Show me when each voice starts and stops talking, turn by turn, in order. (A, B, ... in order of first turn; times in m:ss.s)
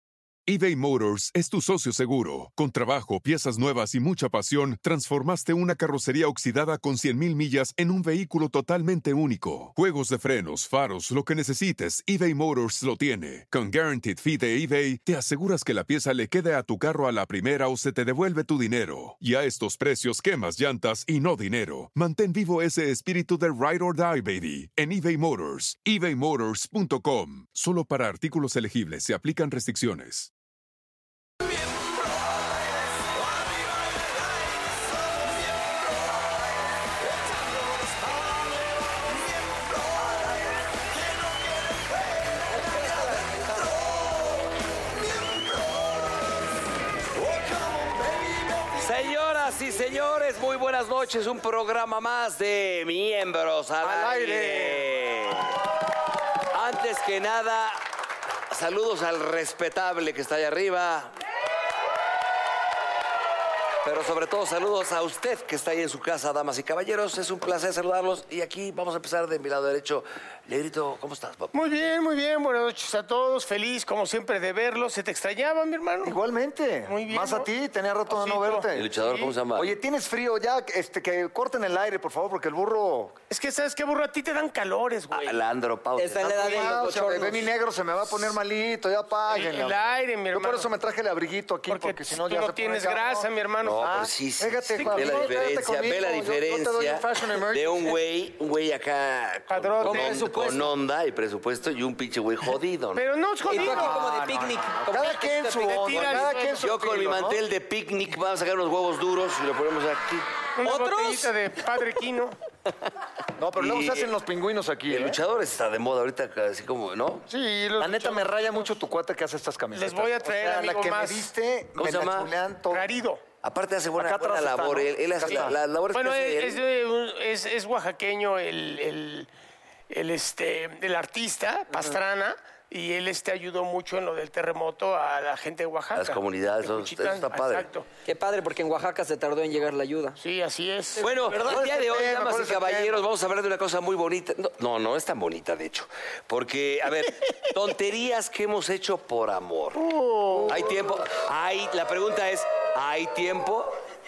0:00.5-0:30.3 A
0:48.8-0:55.6 B
0:53.8-0:54.9 C
0:56.5-0:57.8 B
0:58.5-1:01.1 B
1:03.8-1:11.5 B
1:11.5-1:16.2 D
1:16.0-1:18.9 C
1:16.9-1:17.5 D
1:18.1-1:19.3 D
1:18.7-1:19.7 B
1:19.5-1:23.2 C
1:23.3-1:25.4 D
1:25.1-1:26.8 B
1:26.0-1:27.5 E
1:26.4-1:29.8 C
1:29.3-1:30.7 D
1:30.3-1:38.0 C
1:31.7-1:33.9 D
1:33.6-1:43.0 B
1:39.5-1:40.2 D
1:39.8-1:40.7 E
1:42.9-1:44.0 D
1:43.5-1:45.8 E
1:43.5-1:47.4 C
1:45.7-1:46.6 D
1:45.9-1:50.3 B
1:50.6-1:52.4 D
1:50.6-1:51.3 E
1:53.4-1:55.2 C
1:53.6-1:54.1 B
1:54.9-1:57.3 B
1:57.3-2:02.9 C
1:57.5-1:58.6 D
1:59.7-2:01.3 D
2:01.8-2:02.3 B
2:02.7-2:03.2 D
2:03.4-2:06.6 B
2:04.0-2:05.5 C
2:05.3-2:09.3 D
2:09.9-2:17.8 D
2:15.9-2:17.7 B
2:18.0-2:20.2 E
2:20.2-2:21.0 D
2:21.0-2:21.6 E
2:21.0-2:29.8 B
2:21.4-2:23.0 C
2:29.7-2:30.7 D
2:30.5-2:33.8 B